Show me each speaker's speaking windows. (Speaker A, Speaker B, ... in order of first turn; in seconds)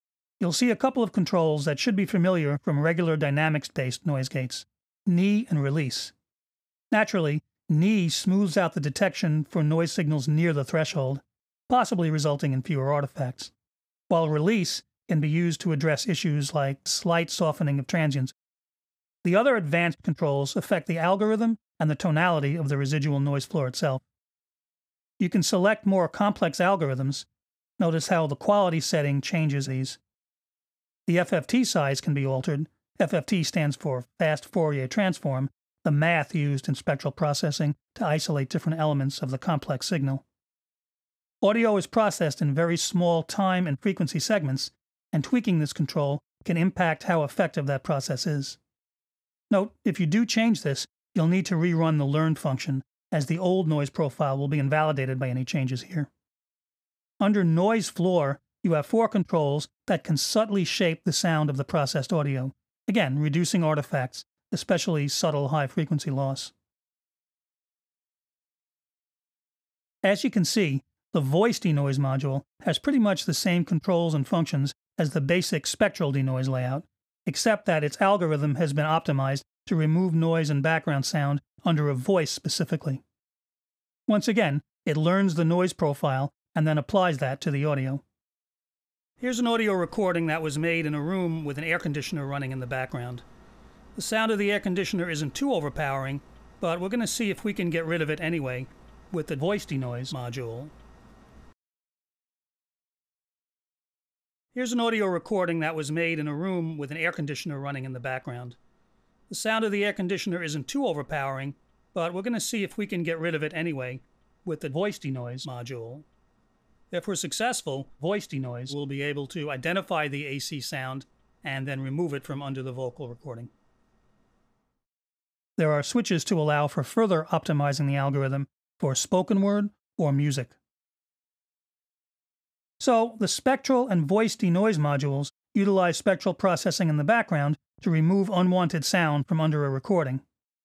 Speaker A: 0.4-6.1, 6.9-13.5, 14.1-18.4, 19.2-24.0, 25.2-27.3, 27.8-30.0, 31.1-40.2, 41.4-48.6, 49.5-56.1, 57.2-66.5, 70.0-83.0, 84.1-88.0, 89.2-93.2, 94.0-100.7, 104.5-108.6, 109.3-116.1, 116.9-123.5, 125.6-130.6, 132.8-140.2